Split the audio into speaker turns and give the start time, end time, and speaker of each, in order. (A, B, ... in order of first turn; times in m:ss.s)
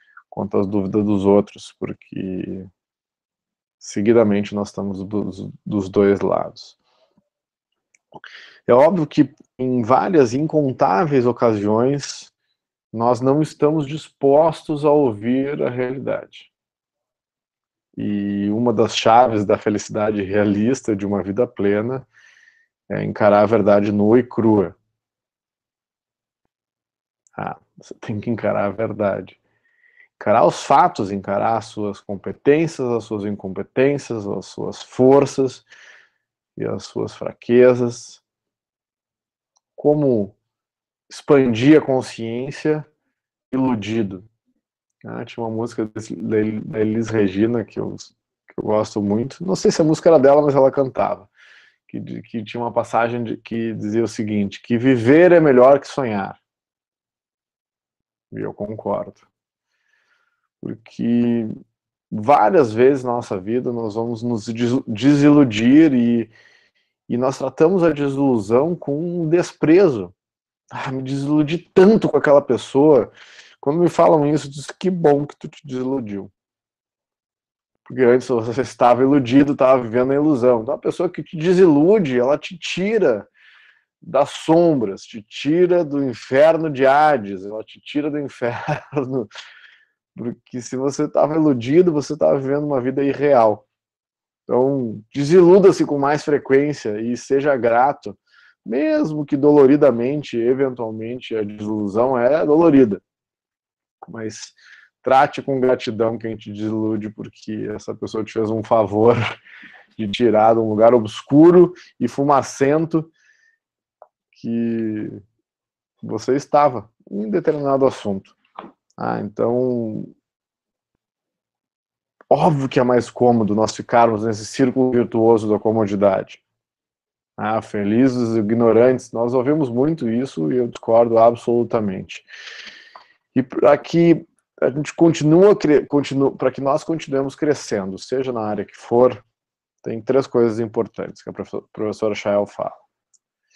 0:00.3-0:02.7 A
0:03.8-0:06.8 A
0:08.7-0:12.3 A
0:12.9-0:16.5 A
0:18.0-0:22.1 A
0:22.9-0:24.8 A
0:27.4-0:29.4 A
0:30.2-0:35.7 A
0:36.6-0:38.2 A
0:39.8-0:40.4 A
0:41.1-0:42.9 A
0:43.5-0:44.3 A
0:45.0-0:51.3 A
0:51.9-0:56.4 A
0:58.3-0:59.2 A
1:00.6-1:01.5 A
1:02.1-1:06.3 A
1:07.1-1:10.1 A
1:10.7-1:13.1 A
1:13.6-1:16.3 A
1:17.9-1:23.3 A
1:24.0-1:29.3 A
1:30.2-1:33.6 A
1:34.5-1:43.0 A
1:44.0-1:49.4 A
1:50.0-1:53.1 A
1:54.3-1:55.2 A
1:56.0-1:58.4 A
1:59.0-2:00.1 A
2:02.3-2:06.4 A
2:07.4-2:12.3 A
2:13.4-2:19.2 A
2:19.8-2:22.8 A